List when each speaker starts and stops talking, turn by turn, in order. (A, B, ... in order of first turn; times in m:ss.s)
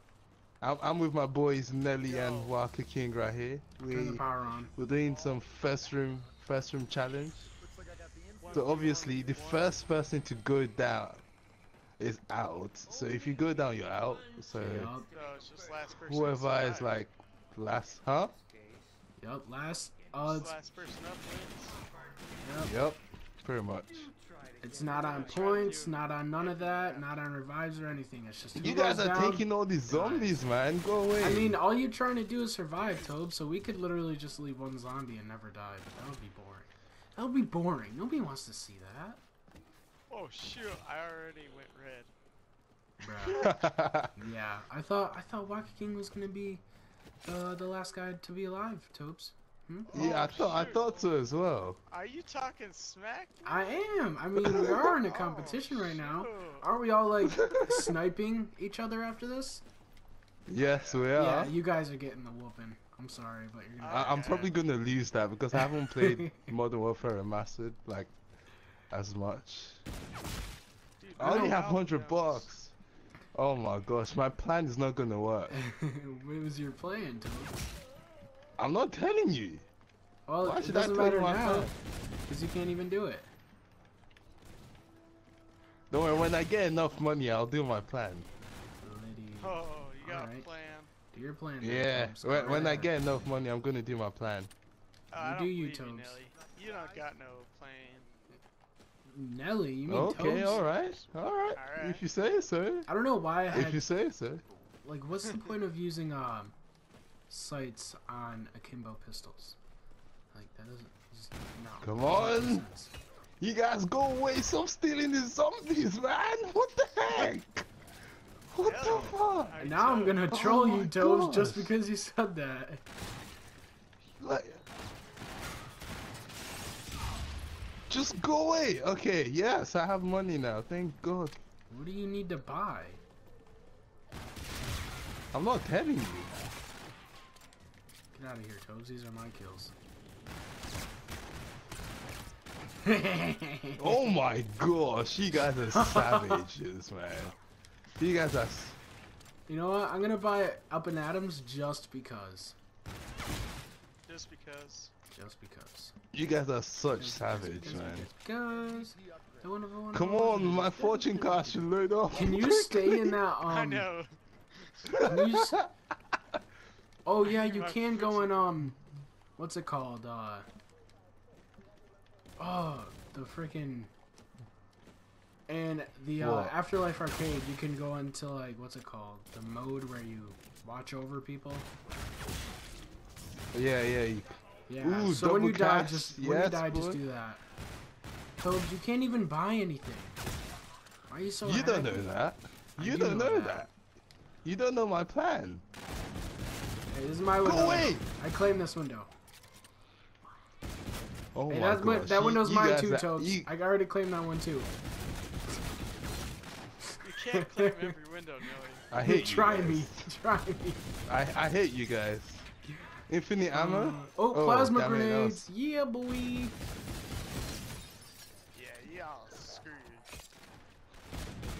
0:00.6-0:04.2 A
0:02.0-0:02.6 B
0:03.9-0:04.7 C
0:04.7-0:07.5 A
0:08.4-0:09.8 B
0:08.5-0:11.2 A
0:12.0-0:14.9 A
0:14.6-0:15.1 C
0:15.1-0:17.0 B
0:16.0-0:18.3 A
0:19.2-0:20.5 C
0:20.2-0:21.8 B
0:22.4-0:22.8 C
0:22.6-0:24.1 A
0:24.6-0:30.5 C
0:25.1-0:27.1 B
0:28.5-0:31.6 A
0:31.2-0:39.2 C
0:32.8-0:33.1 B
0:40.1-0:42.1 B
0:43.0-0:43.6 C
0:43.2-0:44.1 A
0:44.1-0:46.6 C
0:47.2-0:50.1 C
0:49.9-0:51.1 B
0:49.9-0:51.8 A
0:51.9-0:53.7 B
0:53.4-0:59.6 C
0:54.4-0:54.9 A
0:54.9-0:56.6 B
0:57.2-0:58.0 A
1:00.5-1:01.6 A
1:00.6-1:01.1 B
1:01.1-1:04.4 C
1:03.8-1:04.5 B
1:03.9-1:08.1 A
1:05.5-1:06.5 C
1:08.9-1:09.8 A
1:11.0-1:12.4 B
1:11.2-1:11.6 C
1:11.2-1:12.7 A
1:13.3-1:15.5 A
1:15.5-1:17.6 C
1:18.6-1:19.7 A
1:20.3-1:21.7 C
1:20.4-1:21.7 A
1:22.3-1:23.3 C
1:25.9-1:28.3 A
1:28.8-1:30.5 C
1:29.4-1:30.9 B
1:31.1-1:32.9 C
1:31.6-1:34.5 A
1:35.1-1:38.1 B
1:35.2-1:36.2 C
1:39.0-1:40.6 C
1:39.9-1:42.9 A
1:40.0-1:42.0 B
1:42.9-1:43.8 C
1:43.5-1:44.4 A
1:44.8-1:46.5 C
1:47.3-1:49.6 C
1:50.3-1:53.0 C
1:51.8-1:52.6 A
1:53.4-1:57.7 A
1:58.5-1:59.6 A
1:58.6-2:00.3 B
1:58.8-2:02.8 C
2:00.3-2:01.7 A
2:04.2-2:04.6 A
2:07.9-2:11.4 A
2:11.7-2:13.0 C
2:15.3-2:16.3 A
2:18.1-2:19.7 C
2:22.8-2:24.0 C
2:23.8-2:27.4 A
2:25.7-2:26.4 C
2:28.0-2:28.8 A
2:29.5-2:32.6 C
2:34.1-2:34.9 B
2:35.1-2:36.0 C
2:36.1-2:38.1 A
2:37.0-2:41.3 C
2:39.9-2:43.2 A
2:42.1-2:43.9 C
2:43.5-2:44.1 B
2:44.6-2:45.0 B
2:44.9-2:45.6 A
2:45.0-2:45.6 C
2:47.0-2:48.8 C
2:47.2-2:48.5 B
2:49.4-2:50.5 C
2:52.4-2:53.9 C
2:55.5-3:01.7 C
2:56.2-2:56.6 A
3:03.5-3:07.0 A
3:04.7-3:07.4 C
3:08.4-3:10.2 C
3:11.1-3:12.1 C
3:11.4-3:13.7 A
3:12.8-3:13.7 C
3:14.4-3:15.6 A
3:16.9-3:19.1 C
3:17.4-3:18.0 A
3:21.3-3:23.5 A
3:21.5-3:24.7 C
3:26.9-3:27.8 C
3:27.0-3:28.8 B
3:28.9-3:30.0 A
3:29.0-3:30.8 C
3:31.1-3:32.5 A
3:32.6-3:36.6 C
3:33.1-3:35.5 A
3:38.5-3:40.1 B